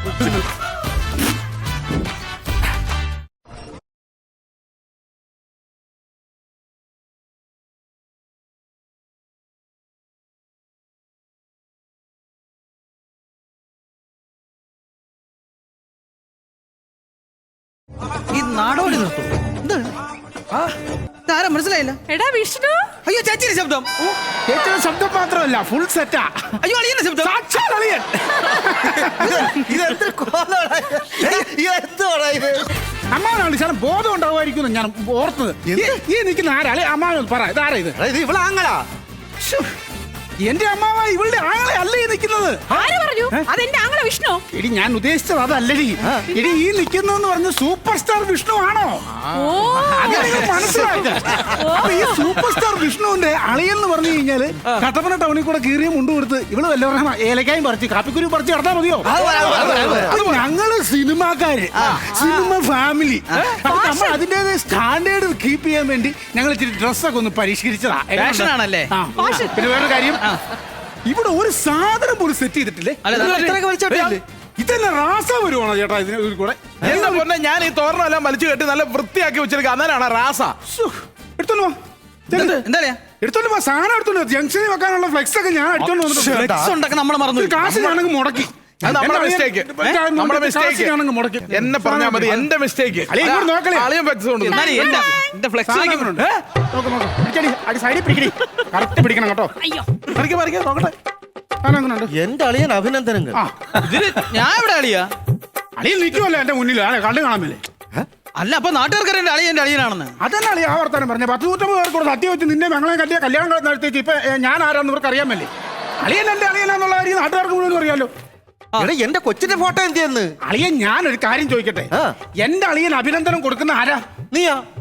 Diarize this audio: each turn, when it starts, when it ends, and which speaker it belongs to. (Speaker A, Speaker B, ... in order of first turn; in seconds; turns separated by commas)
Speaker A: 18.3-19.9, Speaker A: 21.2-22.0, Speaker B: 22.1-22.9, Speaker A: 23.0-23.9, Speaker C: 24.4-26.6, Speaker A: 26.6-27.3, Speaker C: 27.2-29.8, Speaker D: 28.9-32.7, Speaker C: 33.1-38.0, Speaker D: 35.7-36.0, Speaker D: 38.0-38.8, Speaker C: 39.4-39.7, Speaker C: 40.4-43.5, Speaker B: 42.7-44.4, Speaker C: 44.5-49.0, Speaker E: 49.2-49.5, Speaker B: 49.3-50.3, Speaker C: 49.8-70.2, Speaker B: 51.5-52.4, Speaker D: 59.0-60.2, Speaker E: 59.6-60.4, Speaker A: 61.7-62.1, Speaker B: 63.6-64.2, Speaker A: 68.1-69.5, Speaker B: 69.2-69.6, Speaker C: 71.0-73.0, Speaker A: 73.0-74.1, Speaker D: 73.1-74.2, Speaker C: 74.6-77.3, Speaker E: 76.8-80.5, Speaker C: 80.7-81.8, Speaker C: 82.3-82.6, Speaker A: 82.3-83.0, Speaker C: 83.2-86.5, Speaker D: 86.0-86.7, Speaker A: 86.1-87.7, Speaker C: 87.3-92.5, Speaker E: 88.8-90.9, Speaker E: 91.5-94.7, Speaker C: 93.1-93.9, Speaker A: 94.4-96.3, Speaker C: 94.5-95.1, Speaker C: 95.6-99.5, Speaker B: 99.6-100.0, Speaker E: 100.0-100.9, Speaker C: 101.6-102.1, Speaker D: 102.1-103.4, Speaker C: 103.3-103.8, Speaker A: 103.8-105.1, Speaker C: 105.8-107.6, Speaker A: 108.4-110.1, Speaker C: 110.2-115.5, Speaker C: 116.0-118.1, Speaker D: 118.8-120.3, Speaker C: 120.4-124.0, Speaker D: 124.3-124.6